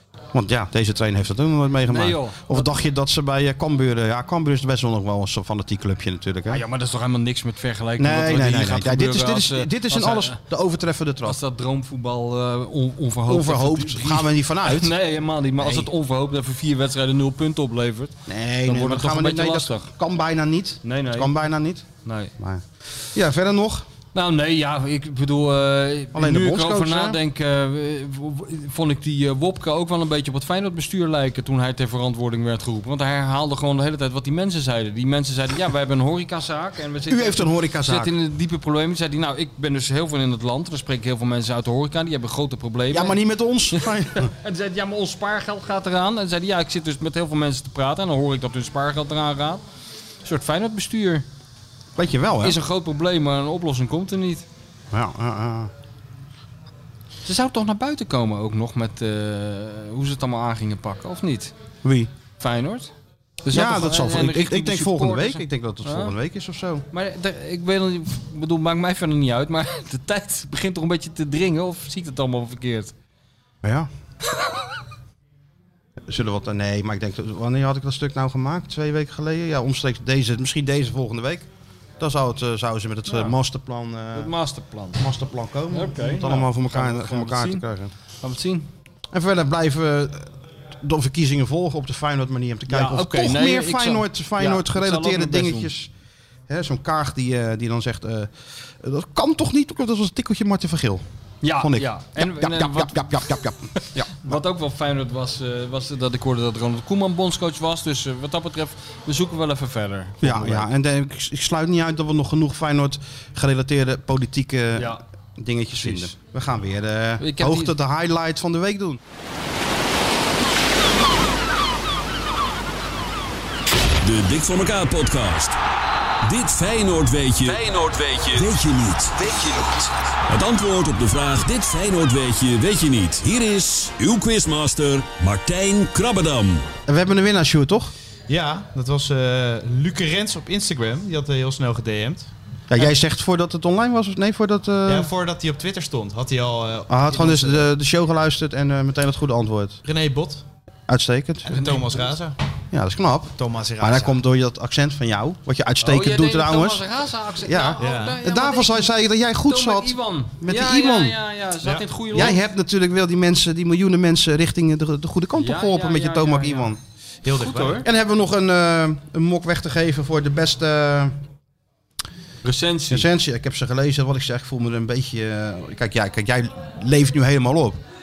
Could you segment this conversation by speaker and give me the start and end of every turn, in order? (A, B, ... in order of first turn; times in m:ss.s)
0:00.3-0:06.6 A
0:01.9-0:02.8 B
0:06.5-0:10.4 B
0:08.0-0:11.4 A
0:11.2-0:19.9 B
0:13.3-0:14.9 A
0:15.6-0:15.9 A
0:18.3-0:21.8 A
0:20.8-0:21.3 B
0:22.0-0:22.3 B
0:22.4-0:23.8 A
0:24.1-0:43.2 B
0:26.1-0:27.2 A
0:37.1-0:38.1 A
0:42.9-0:44.3 A
0:43.7-0:49.6 B
0:50.2-0:51.2 B
0:52.0-0:52.6 A
0:52.4-0:54.4 B
0:54.9-0:55.7 A
0:57.2-1:01.5 B
1:01.8-1:02.1 A
1:02.4-1:02.9 B
1:03.4-1:06.1 B
1:03.5-1:06.8 A
1:06.9-1:12.9 B
1:13.6-1:13.9 A
1:16.1-1:21.5 A
1:22.0-1:24.3 A
1:23.1-1:23.3 B
1:24.1-1:25.0 B
1:24.9-1:27.9 A
1:25.7-1:27.6 B
1:28.2-1:28.7 B
1:29.1-1:35.9 A
1:32.7-1:35.7 B
1:36.5-1:41.0 A
1:41.4-1:43.2 B
1:41.6-1:44.4 A
1:44.1-1:50.7 B
1:50.2-1:59.0 A
1:54.7-1:55.0 B
1:55.8-1:56.1 B
1:57.2-1:57.7 B
2:04.0-2:05.6 C
2:06.2-2:16.6 C
2:16.9-2:17.9 A
2:18.3-2:22.3 D
2:22.7-2:25.1 A
2:24.9-2:27.7 D
2:26.9-2:29.8 A
2:29.8-2:30.4 D
2:30.9-2:31.8 A
2:31.4-2:32.4 D
2:31.6-2:32.1 B
2:32.7-2:36.8 A
2:33.4-2:34.2 D
2:35.8-2:38.9 B
2:37.4-2:41.2 A
2:37.8-2:38.2 D
2:39.4-2:42.4 B
2:42.1-2:46.8 A
2:45.4-2:46.7 B
2:47.2-2:47.8 D
2:47.3-2:47.8 B
2:47.8-2:51.2 A
2:52.4-2:53.1 B
2:52.9-2:57.8 A